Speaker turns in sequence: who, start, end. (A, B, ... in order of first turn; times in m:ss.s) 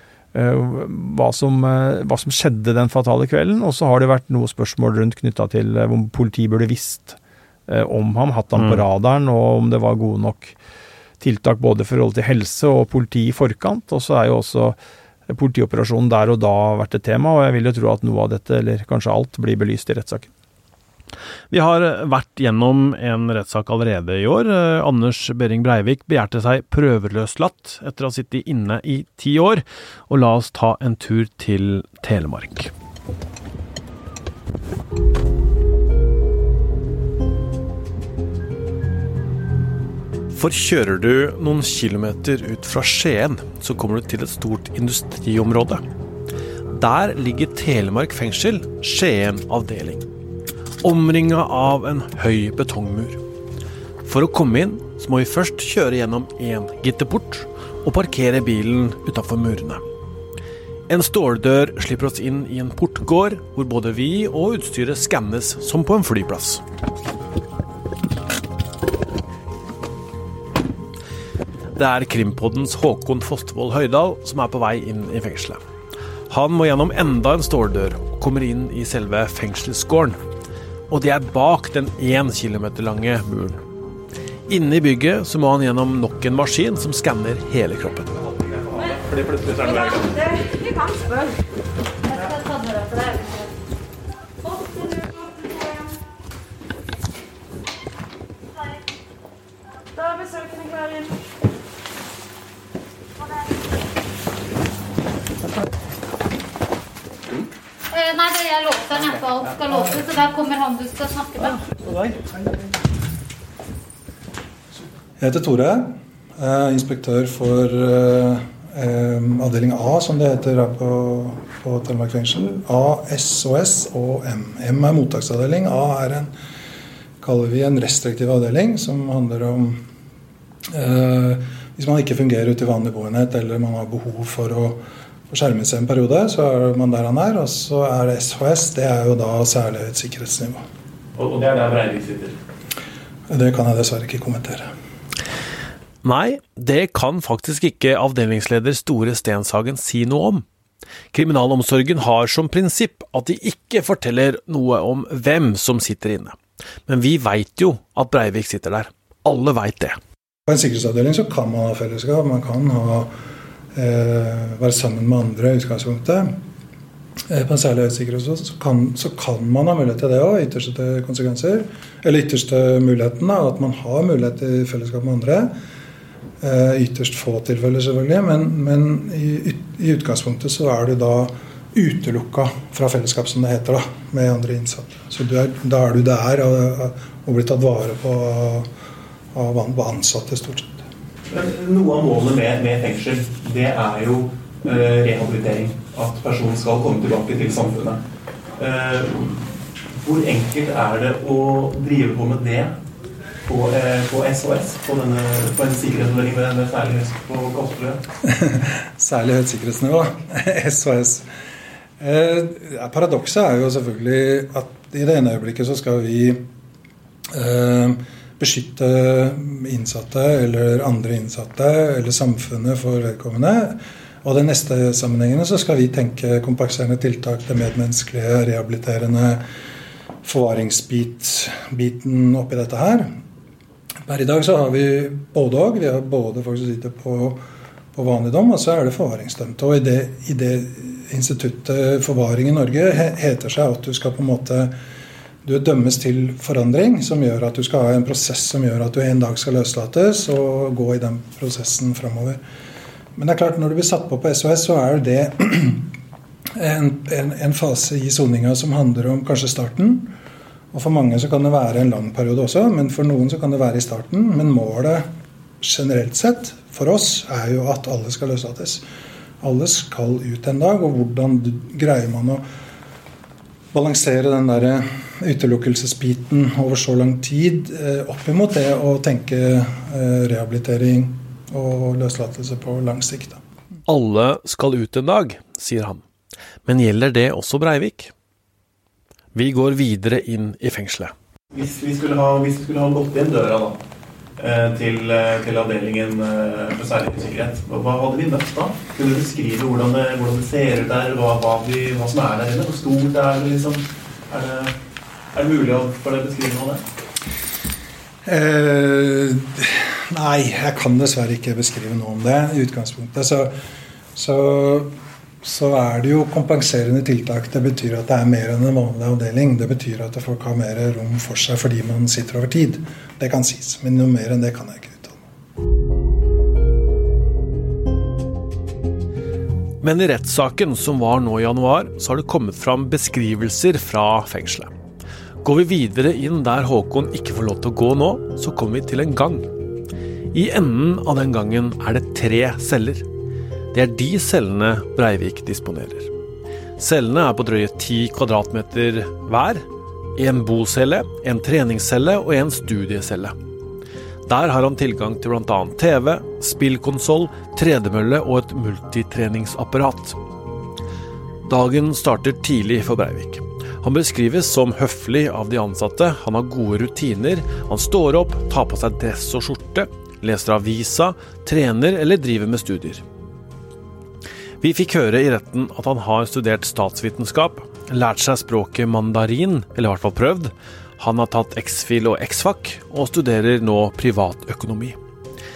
0:00.3-0:07.2 A
0:07.7-0:10.6 A
0:11.2-0:14.8 A
0:15.3-0:20.3 A
0:21.5-0:32.7 B
0:40.3-0:45.8 B
0:46.7-0:50.0 B
0:50.8-0:53.2 B
0:54.0-0:59.8 B
1:00.9-1:06.6 B
1:11.7-1:15.6 B
1:16.3-1:20.2 B
1:20.9-1:23.6 B
1:24.5-1:28.1 B
1:28.4-1:30.1 C
1:30.7-1:31.0 D
1:32.0-1:33.5 D
1:34.5-1:35.0 D
1:47.9-1:51.6 D
1:55.2-2:06.3 E
2:07.2-2:09.8 E
2:10.7-2:20.6 E
2:21.2-2:22.4 C
2:23.3-2:24.7 E
2:26.0-2:30.4 B
2:31.1-2:40.0 B
2:40.5-2:43.1 E
2:43.7-2:46.4 E
2:47.3-2:55.5 E
2:56.4-3:08.7 E
3:09.3-3:10.8 E
3:11.3-3:18.0 C
3:18.6-3:22.7 C
3:23.4-3:28.0 C
3:28.2-3:31.3 E
3:32.0-3:36.5 E
3:37.3-3:49.4 E
3:50.2-3:53.1 E
3:54.0-3:57.4 E
3:57.9-4:04.7 E
4:05.4-4:12.4 E
4:13.2-4:15.9 E
4:16.6-4:20.1 E
4:20.7-4:25.1 E
4:25.6-4:28.8 E
4:29.4-4:32.4 E
4:33.7-4:43.4 E
4:43.9-4:46.0 B
4:46.6-4:48.1 B
4:49.3-4:51.1 B
4:51.5-4:53.8 C
4:54.4-5:04.7 C
5:05.3-5:06.8 C
5:08.2-5:13.5 E
5:14.1-5:25.2 E
5:29.8-5:34.7 B
5:35.4-5:39.5 B
5:40.3-5:43.0 B
5:43.7-5:46.1 B
5:46.8-5:53.3 B
5:54.2-6:00.2 B
6:01.5-6:13.0 B
6:14.6-6:25.0 B